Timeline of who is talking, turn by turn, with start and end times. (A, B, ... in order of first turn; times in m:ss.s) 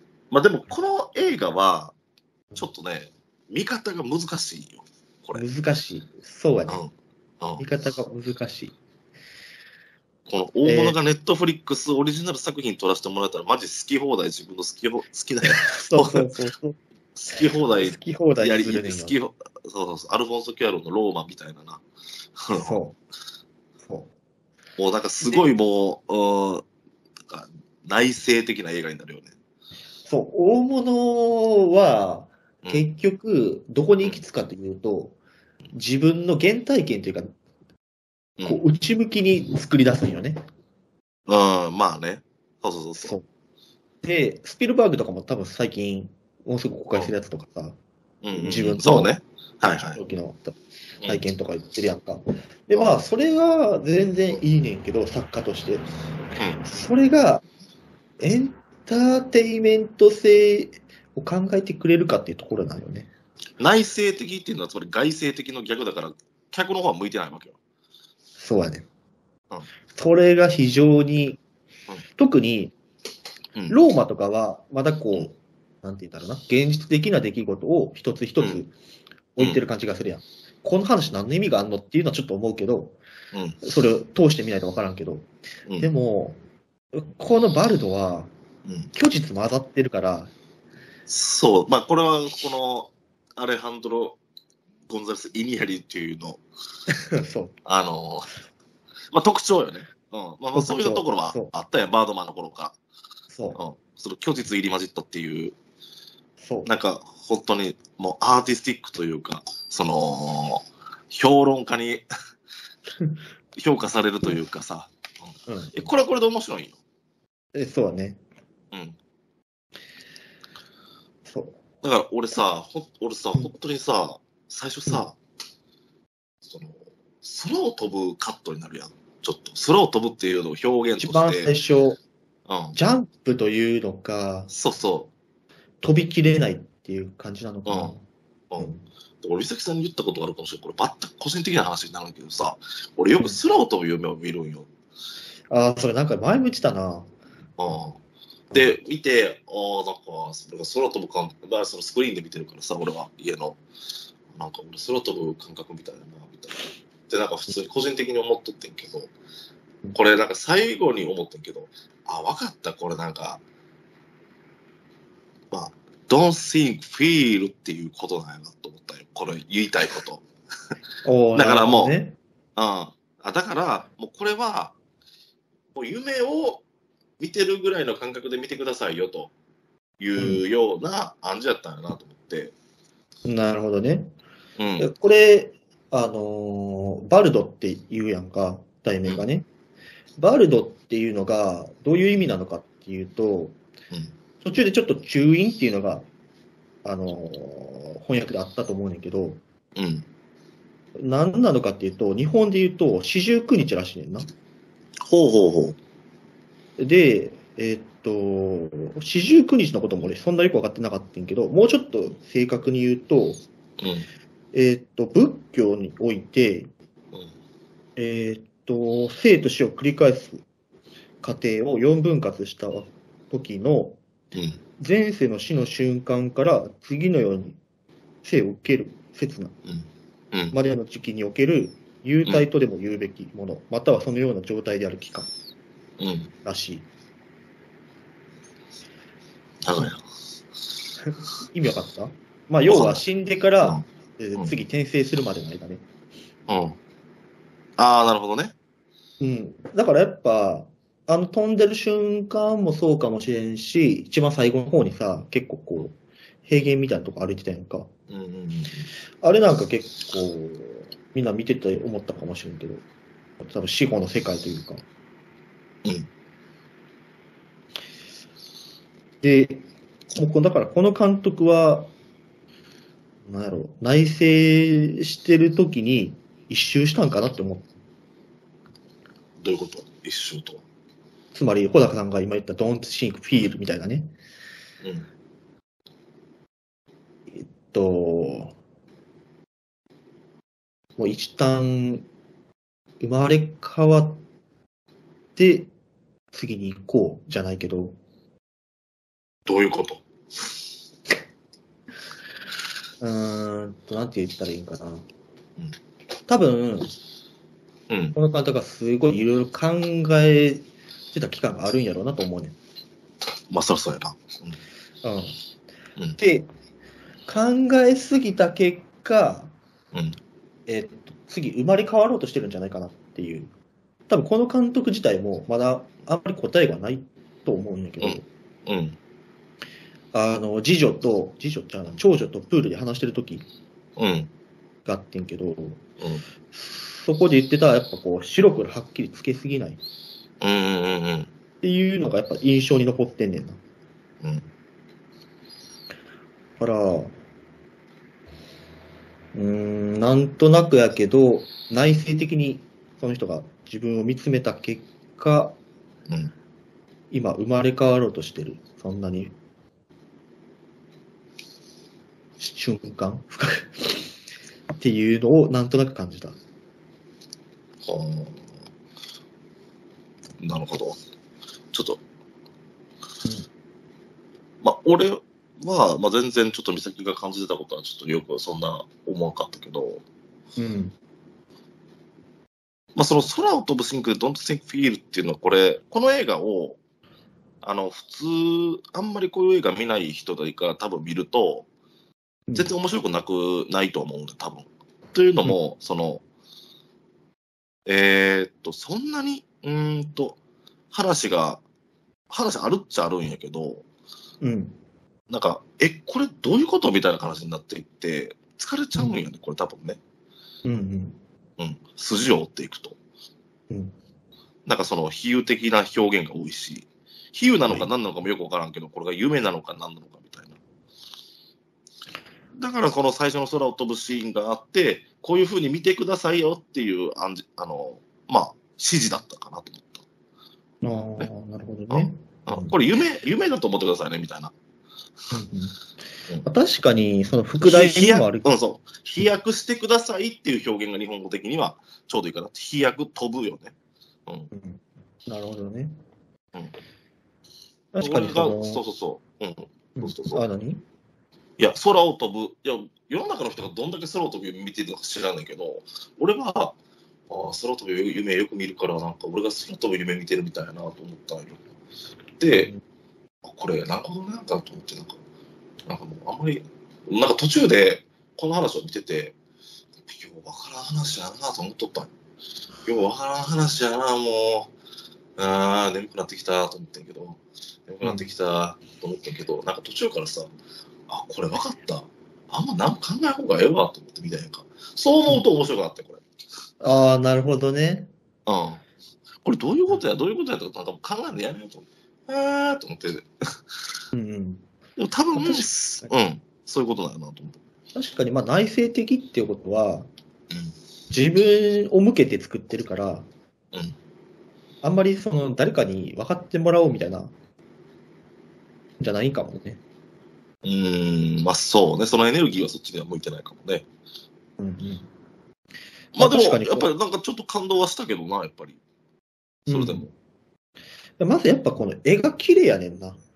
0:00.3-0:02.0 A
0:02.6-0:05.4 A
0:05.4-0:06.8 B
0:06.7-0:07.7 A
0:07.6-0:08.8 B
0:10.3-0:16.4 A
0:10.6-0:11.0 B
0:15.4-0:16.8 B
0:17.2-0:21.8 A
0:17.6-0:19.2 B
0:22.4-0:22.8 A
0:22.5-0:23.0 B
0:23.8-0:24.1 B
0:24.8-0:26.7 A
0:27.3-0:29.3 A
0:30.1-0:35.2 B
0:35.7-0:37.3 B
0:38.5-0:40.4 B
0:41.3-0:43.2 A
0:43.0-0:43.3 B
0:44.0-0:47.8 B
0:48.2-0:50.0 A
0:48.4-0:49.2 B
0:49.7-0:55.9 B
0:51.0-0:51.2 A
0:52.7-0:53.0 A
0:56.6-0:57.4 B
0:58.2-1:03.1 B
1:03.6-1:07.6 A
1:08.4-1:08.9 B
1:09.9-1:11.4 B
1:12.1-1:12.7 B
1:13.7-1:18.7 B
1:18.4-1:18.6 A
1:19.4-1:23.0 B
1:23.3-1:23.6 A
1:23.6-1:26.4 B
1:26.9-1:28.3 B
1:28.7-1:28.9 A
1:28.9-1:30.3 B
1:31.1-1:34.2 A
1:34.9-1:36.4 A
1:36.9-1:37.6 B
1:37.6-1:38.4 A
1:39.1-1:42.8 A
1:40.6-1:41.5 B
1:43.3-1:43.6 B
1:43.6-1:45.6 A
1:46.4-1:46.7 B
1:46.6-1:52.0 A
1:53.6-1:56.8 A
1:55.5-1:55.9 B
1:57.6-1:58.2 B
1:58.7-1:59.0 A
2:01.3-2:01.6 B
2:01.8-2:05.2 A
2:06.4-2:11.6 A
2:11.0-2:12.0 B
2:12.5-2:12.8 A
2:12.7-2:14.5 B
2:14.5-2:15.1 A
2:15.8-2:18.0 B
2:17.7-2:18.0 A
2:18.5-2:24.7 A
2:25.5-2:27.1 B
2:27.6-2:28.0 A
2:28.5-2:33.6 A
2:34.3-2:39.1 A
2:39.9-2:43.4 A
2:45.5-2:50.2 A
2:51.0-2:52.2 B
2:51.3-2:51.9 A
2:52.6-2:54.7 A
2:55.7-2:56.6 A
2:57.2-2:59.3 A
3:00.0-3:02.5 A
3:00.2-3:00.4 B
3:03.2-3:04.1 B
3:04.6-3:04.9 A
3:04.8-3:09.5 B
3:10.2-3:13.6 B
3:14.4-3:16.1 B
3:16.8-3:19.4 B
3:19.8-3:20.1 A
3:21.0-3:24.3 B
3:25.1-3:25.8 A
3:26.8-3:33.4 B
3:33.8-3:34.1 A
3:34.5-3:36.7 B
3:38.0-3:40.4 B
3:41.2-3:44.0 B
3:44.3-3:44.6 A
3:44.8-3:47.6 B
3:48.2-3:49.6 B
3:49.7-3:50.6 A
3:50.5-3:55.3 B
3:56.0-3:56.3 A
3:56.4-3:56.9 B
3:59.6-4:00.0 A
4:01.0-4:05.8 B
4:02.7-4:03.0 A
4:03.6-4:04.5 A
4:06.5-4:06.8 A
4:07.8-4:08.6 A
4:09.2-4:17.9 B
4:18.1-4:18.9 A
4:19.2-4:22.8 B
4:23.4-4:24.8 B
4:29.2-4:31.9 B
4:33.3-4:37.7 B
4:39.4-4:40.6 A
4:41.3-4:44.2 B
4:44.8-4:45.1 A
4:47.3-4:48.6 B
4:51.0-4:52.1 B
4:53.0-4:54.2 B
4:55.4-4:55.7 B
4:56.3-4:58.0 B
4:59.5-5:00.0 A
5:03.0-5:05.1 B
5:06.3-5:06.9 B
5:07.9-5:08.2 A
5:08.2-5:12.6 B
5:13.5-5:14.6 A
5:15.0-5:15.4 B
5:16.2-5:16.5 B
5:17.3-5:19.5 B
5:19.9-5:20.2 A
5:20.7-5:23.5 B
5:24.1-5:28.3 B
5:28.0-5:29.0 A
5:30.1-5:33.5 B
5:34.0-5:34.3 A
5:34.8-5:35.8 B
5:36.0-5:36.2 A
5:36.5-5:39.8 B
5:40.4-5:41.3 A
5:41.6-5:43.6 B
5:44.2-5:44.5 A
5:46.6-5:47.2 B
5:49.3-5:55.6 B
5:57.1-5:59.3 B
6:02.4-6:04.2 B
6:04.7-6:06.4 B
6:07.8-6:08.4 A
6:10.4-6:11.0 A
6:11.7-6:12.0 A
6:14.6-6:20.0 A
6:20.6-6:21.0 B
6:23.0-6:26.8 A
6:27.6-6:31.7 A
6:32.5-6:32.7 B
6:32.6-6:36.2 A
6:37.9-6:40.4 A
6:40.9-6:41.6 A
6:42.3-6:43.8 A
6:44.4-6:44.8 B
6:45.3-6:50.0 A
6:49.0-6:49.2 B
6:50.6-6:51.2 B
6:51.6-6:53.0 A
6:53.7-6:54.0 B
6:54.7-7:00.6 A
7:02.6-7:10.0 A
7:10.8-7:12.8 B
7:11.9-7:14.5 A
7:15.3-7:15.8 B
7:16.4-7:18.5 B
7:17.6-7:23.7 A
7:24.5-7:26.0 B
7:27.9-7:28.8 B
7:28.0-7:30.4 A
7:30.0-7:30.8 B
7:31.6-7:36.8 A
7:37.3-7:41.6 A
7:42.4-7:42.7 A
7:43.4-7:45.2 A
7:45.9-7:49.4 A
7:50.0-7:52.1 A
7:52.8-7:54.7 A
7:55.4-8:00.5 A
7:58.0-7:58.3 B
8:01.1-8:06.2 A
8:06.8-8:08.1 B
8:08.5-8:08.8 A
8:09.4-8:13.3 A
8:14.1-8:14.7 B
8:15.0-8:17.6 A
8:15.3-8:16.1 B
8:17.9-8:20.1 B
8:21.1-8:23.3 B
8:24.8-8:27.3 B
8:29.0-8:29.8 B
8:30.6-8:33.9 A
8:34.6-8:35.1 B
8:36.1-8:38.8 A
8:36.2-8:36.9 B
8:39.7-8:40.1 B
8:39.7-8:40.1 A
8:41.2-8:43.2 B